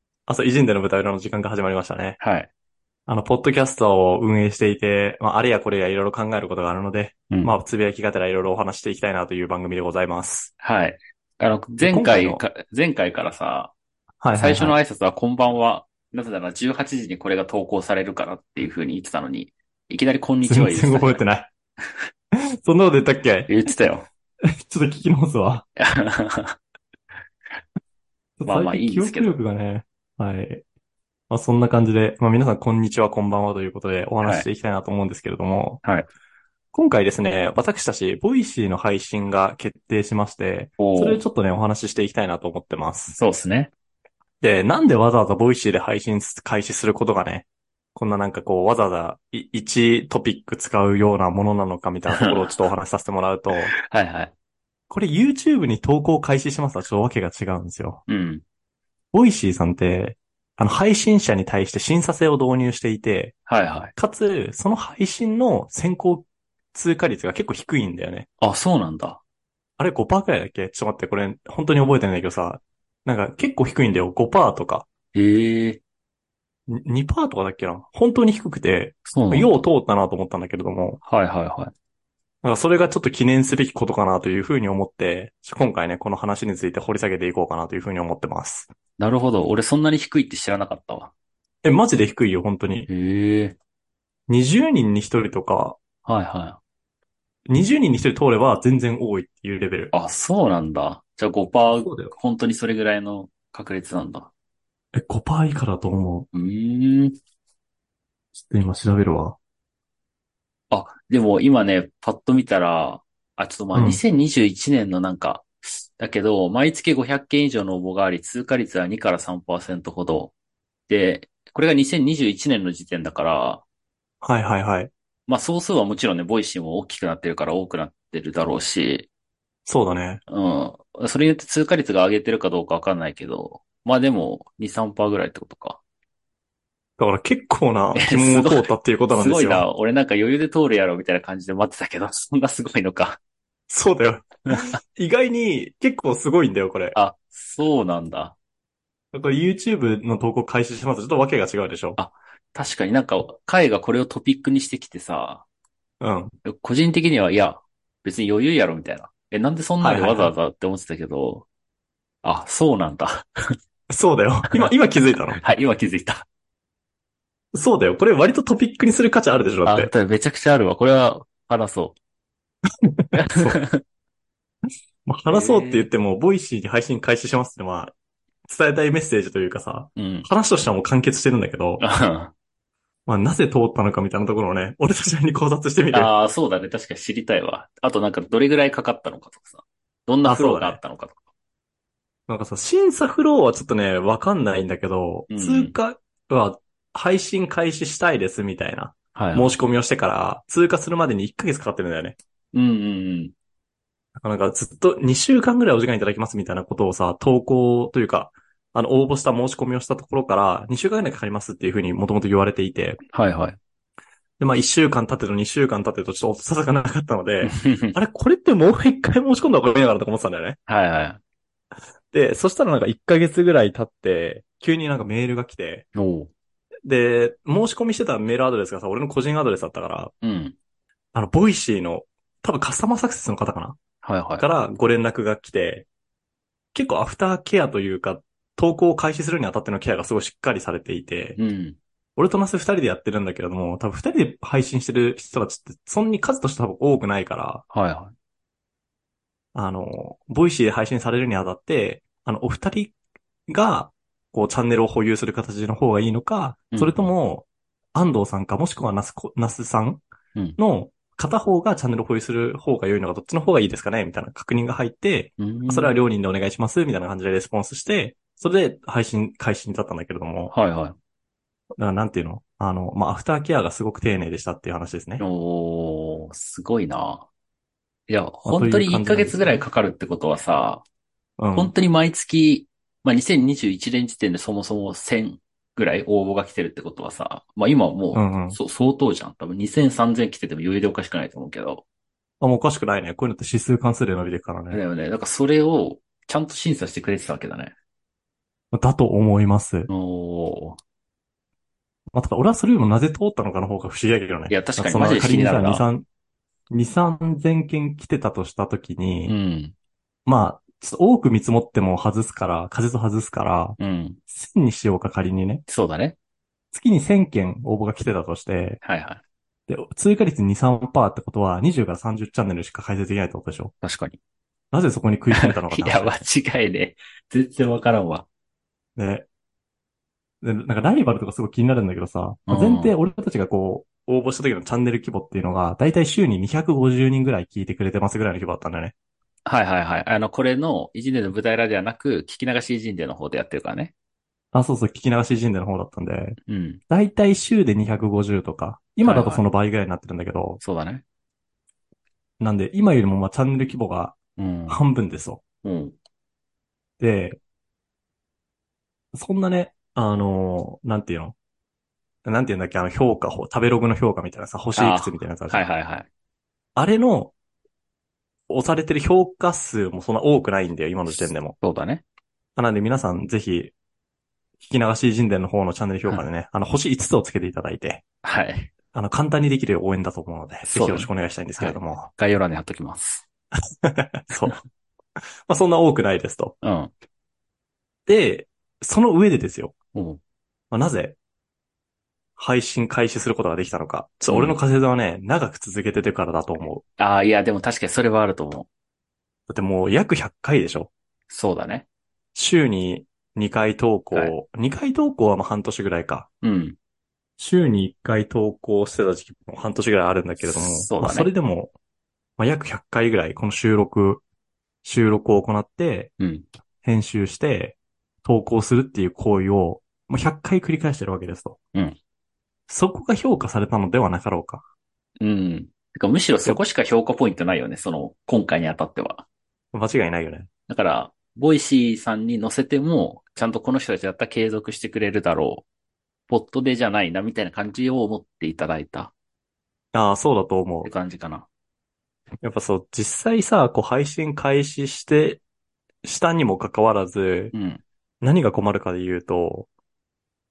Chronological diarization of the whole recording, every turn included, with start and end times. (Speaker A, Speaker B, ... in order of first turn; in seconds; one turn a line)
Speaker A: 0.3-2.2
Speaker B: 2.2-2.5
Speaker A: 3.1-10.5
Speaker B: 10.6-13.7
Speaker A: 11.8-12.4
Speaker A: 14.2-14.8
Speaker B: 14.3-21.2
Speaker A: 20.4-21.5
Speaker A: 22.6-23.6
Speaker B: 23.5-24.1
Speaker A: 24.6-25.7
Speaker B: 25.8-26.6
Speaker A: 28.4-30.6
Speaker B: 28.5-29.4
Speaker A: 31.3-35.8
Speaker B: 34.2-34.5
Speaker A: 36.7-43.2
Speaker B: 40.8-41.2
Speaker B: 43.1-43.7
Speaker A: 44.4-53.7
Speaker B: 53.7-54.3
Speaker A: 54.9-58.0
Speaker B: 58.1-58.4
Speaker A: 59.1-63.3
Speaker B: 63.5-63.9
Speaker A: 64.0-68.3
Speaker B: 68.4-69.2
Speaker A: 69.8-74.9
Speaker B: 75.1-75.8
Speaker A: 76.7-81.0
Speaker B: 79.1-79.5
Speaker B: 81.0-81.7
Speaker A: 82.4-88.7
Speaker B: 89.0-91.1
Speaker A: 91.6-92.9
Speaker B: 92.9-93.5
Speaker A: 94.3-95.8
Speaker B: 96.0-96.6
Speaker A: 97.5-99.9
Speaker B: 99.9-104.3
Speaker A: 101.8-102.1
Speaker A: 104.9-106.3
Speaker B: 106.3-107.2
Speaker A: 108.3-109.4
Speaker B: 110.7-120.3
Speaker A: 113.7-114.0
Speaker B: 120.9-123.6
Speaker A: 124.2-124.9
Speaker B: 125.3-129.1
Speaker A: 129.7-130.2
Speaker B: 130.3-135.8
Speaker A: 137.0-139.6
Speaker B: 137.9-143.2
Speaker A: 143.7-147.0
Speaker B: 146.9-148.3
Speaker A: 149.1-152.0
Speaker B: 152.0-155.4
Speaker A: 156.0-156.3
Speaker B: 156.4-161.4
Speaker A: 159.8-160.3
Speaker B: 162.2-163.3
Speaker A: 163.9-165.4
Speaker B: 165.4-166.2
Speaker A: 167.5-169.9
Speaker B: 169.7-171.9
Speaker A: 172.9-173.6
Speaker B: 173.1-173.8
Speaker A: 175.1-177.9
Speaker B: 175.3-175.9
Speaker A: 178.5-181.8
Speaker B: 179.9-180.3
Speaker B: 181.8-182.3
Speaker A: 183.1-186.1
Speaker B: 185.9-191.2
Speaker A: 190.2-190.8
Speaker A: 192.3-202.2
Speaker B: 195.3-195.8
Speaker B: 199.1-199.6
Speaker B: 202.5-203.3
Speaker A: 204.2-213.0
Speaker B: 213.1-213.6
Speaker A: 214.4-220.6
Speaker B: 217.4-217.9
Speaker B: 220.7-221.2
Speaker A: 222.1-225.8
Speaker B: 225.9-226.3
Speaker A: 226.9-230.1
Speaker B: 230.2-230.6
Speaker A: 231.1-233.8
Speaker B: 234.0-234.4
Speaker A: 234.4-235.9
Speaker A: 236.7-241.4
Speaker B: 241.4-241.8
Speaker A: 242.2-247.6
Speaker B: 247.7-248.1
Speaker A: 249.6-252.9
Speaker A: 253.5-260.0
Speaker B: 256.7-257.1
Speaker A: 260.6-270.5
Speaker B: 265.4-266.0
Speaker B: 270.5-271.0
Speaker A: 271.8-275.2
Speaker B: 275.2-277.3
Speaker B: 278.1-280.9
Speaker A: 278.5-279.6
Speaker A: 281.4-281.7
Speaker B: 281.5-291.8
Speaker A: 288.1-288.6
Speaker A: 292.4-294.8
Speaker B: 294.7-297.7
Speaker A: 298.7-299.9
Speaker B: 299.9-300.8
Speaker A: 302.1-306.1
Speaker B: 304.5-305.9
Speaker A: 306.7-309.4
Speaker B: 309.2-309.7
Speaker A: 310.2-313.8
Speaker B: 313.8-314.2
Speaker A: 314.3-315.6
Speaker B: 315.7-316.2
Speaker A: 316.7-318.8
Speaker B: 318.8-319.2
Speaker A: 319.7-323.7
Speaker B: 323.8-324.2
Speaker A: 324.7-326.2
Speaker B: 325.3-328.3
Speaker A: 329.0-329.2
Speaker A: 330.4-338.9
Speaker B: 332.5-332.9
Speaker B: 339.5-343.9
Speaker A: 344.5-346.4
Speaker B: 346.5-346.8
Speaker A: 346.9-350.6
Speaker B: 349.0-349.4
Speaker B: 350.6-351.0
Speaker A: 352.4-354.2
Speaker B: 354.4-354.8
Speaker A: 354.7-355.4
Speaker B: 355.6-356.0
Speaker A: 357.0-357.4
Speaker A: 359.1-361.4
Speaker A: 362.2-365.7
Speaker B: 364.8-366.1
Speaker A: 366.8-367.3
Speaker A: 368.5-371.6
Speaker B: 371.1-372.0
Speaker A: 372.6-373.7
Speaker A: 374.6-378.0
Speaker B: 378.2-378.7
Speaker A: 378.9-382.1
Speaker B: 380.7-383.2
Speaker A: 383.8-384.6
Speaker A: 385.5-386.6
Speaker B: 386.6-386.9
Speaker A: 388.1-389.7
Speaker B: 389.9-390.2
Speaker A: 390.7-391.2
Speaker A: 392.4-396.8
Speaker B: 394.3-394.6
Speaker B: 397.0-398.7
Speaker A: 399.5-400.9
Speaker B: 401.3-401.9
Speaker A: 402.4-406.3
Speaker B: 406.4-406.8
Speaker A: 407.4-411.7
Speaker B: 410.4-411.3
Speaker A: 412.4-414.2
Speaker A: 414.8-416.1
Speaker B: 416.2-416.5
Speaker A: 416.8-421.6
Speaker A: 422.7-424.6
Speaker B: 425.2-429.2
Speaker A: 429.7-430.5
Speaker B: 430.7-435.6
Speaker B: 436.3-439.1
Speaker A: 439.9-440.9
Speaker B: 440.8-441.5
Speaker A: 442.4-445.4
Speaker A: 446.1-447.5
Speaker B: 447.5-447.8
Speaker A: 448.2-449.7